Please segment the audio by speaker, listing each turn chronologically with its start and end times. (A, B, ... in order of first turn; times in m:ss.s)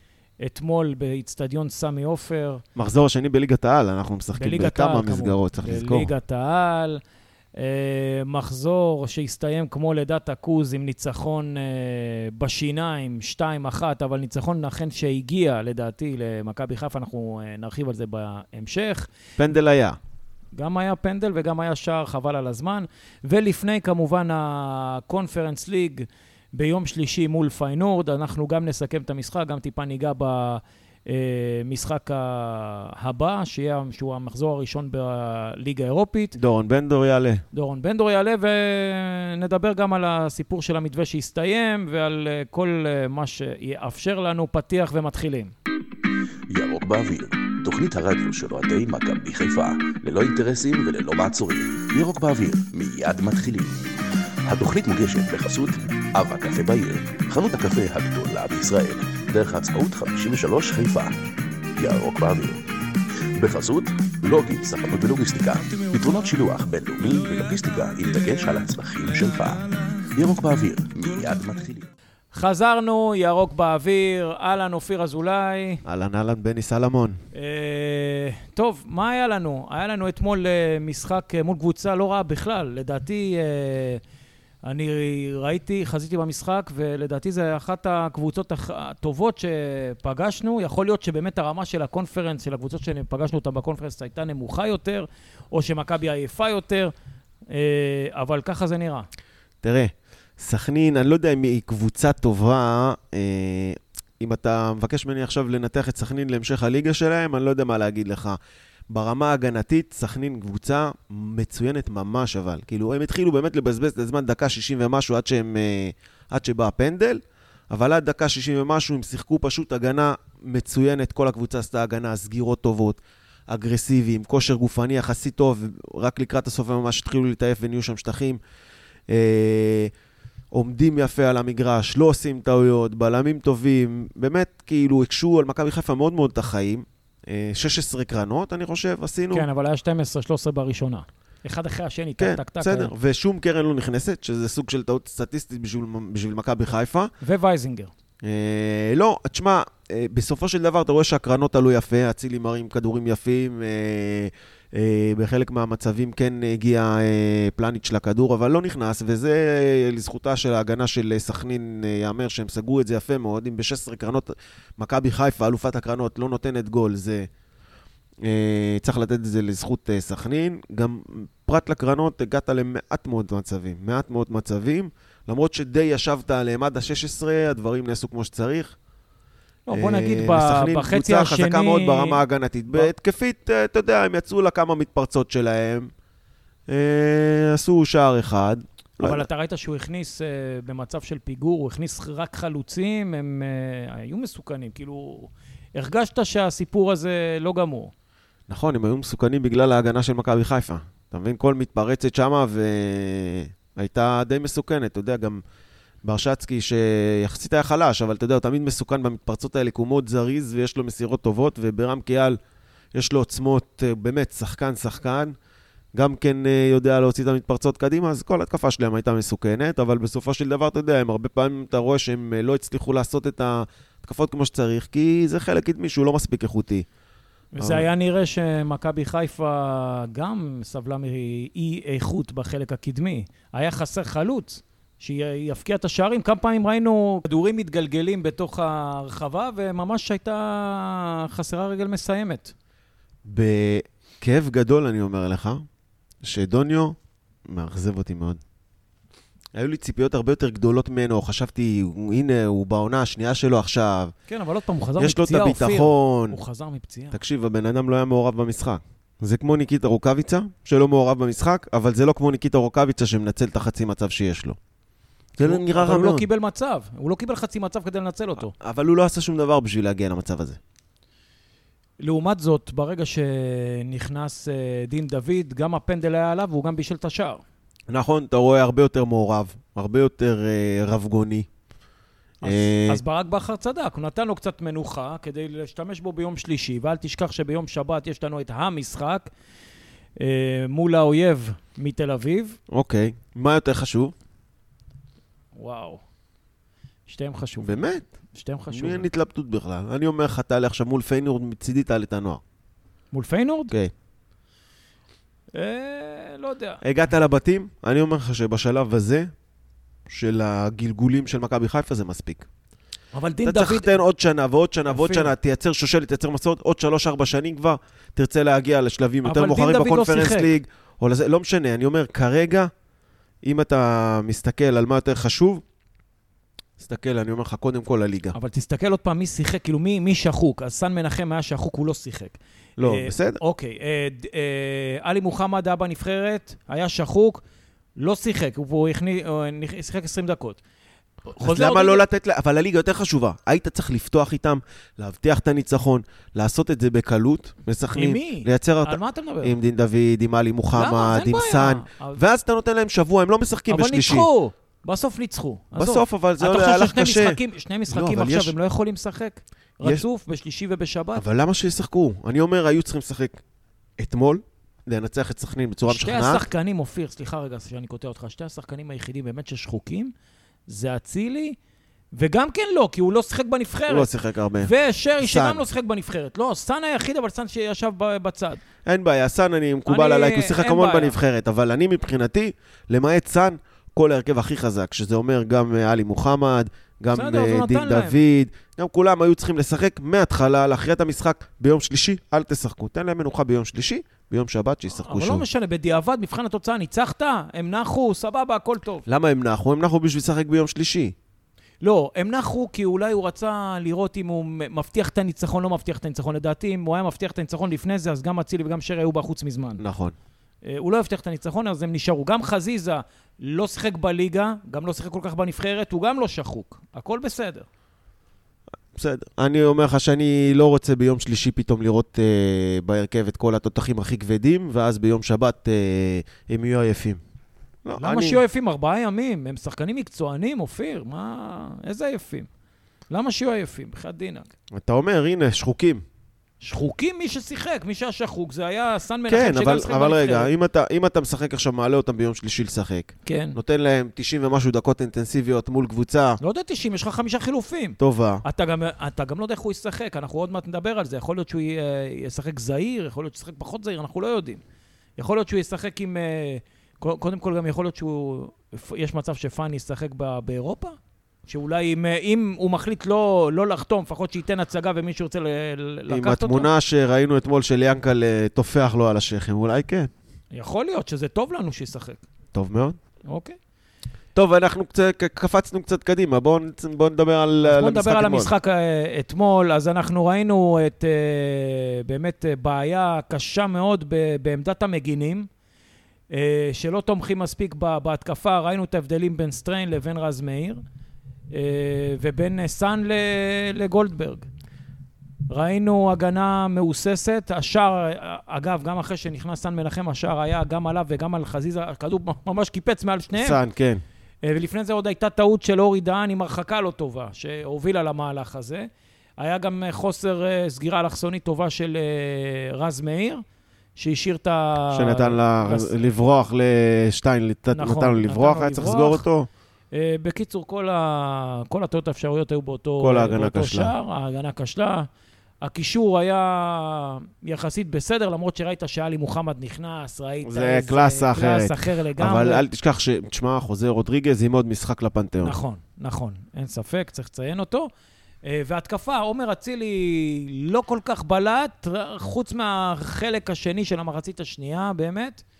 0:00.4-0:02.6 A
0:02.8-0:06.1 B
0:04.4-0:07.0 A
0:07.6-0:19.1 A
0:19.4-0:20.0 B
0:20.5-0:36.4 A
0:36.4-0:37.4 B
0:37.5-0:45.5 A
0:46.5-0:53.9 C
0:54.5-1:01.2 C
1:01.8-1:02.6 C
1:03.4-1:11.9 C
1:12.3-1:15.8 A
1:15.8-1:17.2 B
1:17.3-1:24.0 A
1:24.6-1:36.9 A
1:37.5-1:39.1 A
1:39.6-1:48.4 B
1:48.9-2:08.4 B
2:09.1-2:09.9 B
2:10.5-2:19.4 B
2:19.3-2:22.9 A
2:22.2-2:27.1 B
2:27.2-2:27.9 A
2:28.2-2:47.3 B
2:48.2-2:58.8 B
2:59.7-3:02.2 A
2:59.7-3:05.9 B
3:06.7-3:09.2 B
3:09.0-3:17.9 A
3:18.5-3:25.4 B
3:26.0-3:32.4 B
3:32.9-3:35.4 B
3:35.9-3:46.9 B
3:47.5-4:02.5 A
3:47.6-3:47.9 B
4:03.2-4:05.6 B
4:06.2-4:07.0 B
4:07.5-4:08.4 B
4:09.5-4:14.1 B
4:14.3-4:17.2 A
4:15.0-4:16.4 B
4:17.1-4:24.6 B
4:25.4-4:26.2 B
4:25.4-4:28.5 A
4:28.4-4:30.6 B
4:32.0-4:37.4 A
4:37.9-4:41.5 B
4:42.4-4:43.0 B
4:42.4-4:49.3 A
4:50.2-4:52.6 A
4:52.7-4:54.1 B
4:55.6-4:56.0 A
4:57.1-4:59.1 A
4:57.6-4:58.1 B
4:58.7-5:02.4 B
5:03.1-5:03.7 A
5:05.5-5:06.8 A
5:06.8-5:09.3 B
5:10.1-5:12.5 B
5:13.1-5:13.9 A
5:13.4-5:22.7 B
5:14.9-5:15.3 A
5:19.2-5:20.5 A
5:23.4-5:25.6 B
5:26.8-5:28.4 B
5:28.3-5:37.4 A
5:32.8-5:33.4 B
5:38.0-5:40.6 A
5:41.3-5:42.0 A
5:41.4-5:54.3 B
5:48.0-5:49.6 A
5:50.8-5:52.2 A
5:53.7-6:01.2 A
5:55.8-5:57.4 B
5:57.9-5:58.5 B
6:01.2-6:03.4 B
6:04.0-6:06.4 B
6:05.9-6:10.1 A
6:10.7-6:11.6 A
6:12.1-6:14.1 A
6:13.9-6:15.6 B
6:14.6-6:18.6 A
6:18.9-6:35.4 B
6:19.9-6:21.2 A
6:27.1-6:28.2 A
6:35.0-6:39.0 A
6:39.1-6:41.1 B
6:41.8-6:49.8 A
6:49.8-6:50.2 B
6:50.6-6:57.7 A
6:59.0-7:07.2 B
7:07.8-7:08.4 B
7:08.0-7:12.5 A
7:13.1-7:14.5 A
7:14.8-7:16.0 B
7:16.6-7:20.5 A
7:19.3-7:26.4 B
7:23.3-7:23.6 A
7:26.4-7:34.6 A
7:28.0-7:28.4 B
7:35.2-7:46.7 A
7:46.1-7:50.1 B
7:50.5-7:52.2 A
7:52.5-7:53.0 B
7:53.3-7:53.6 A
7:54.4-7:58.5 B
7:57.6-8:05.5 A
8:06.3-8:10.8 A
8:11.5-8:14.5 A
8:15.5-8:23.6 A
8:23.4-8:24.0 B
8:24.4-8:33.4 A
8:34.0-8:35.9 A
8:34.9-8:39.5 B
8:37.7-8:39.2 A
8:39.9-8:45.1 A
8:43.0-8:43.9 B
8:45.6-8:52.6 A
8:50.4-8:55.6 B
8:55.4-8:57.9 A
8:58.4-9:05.4 A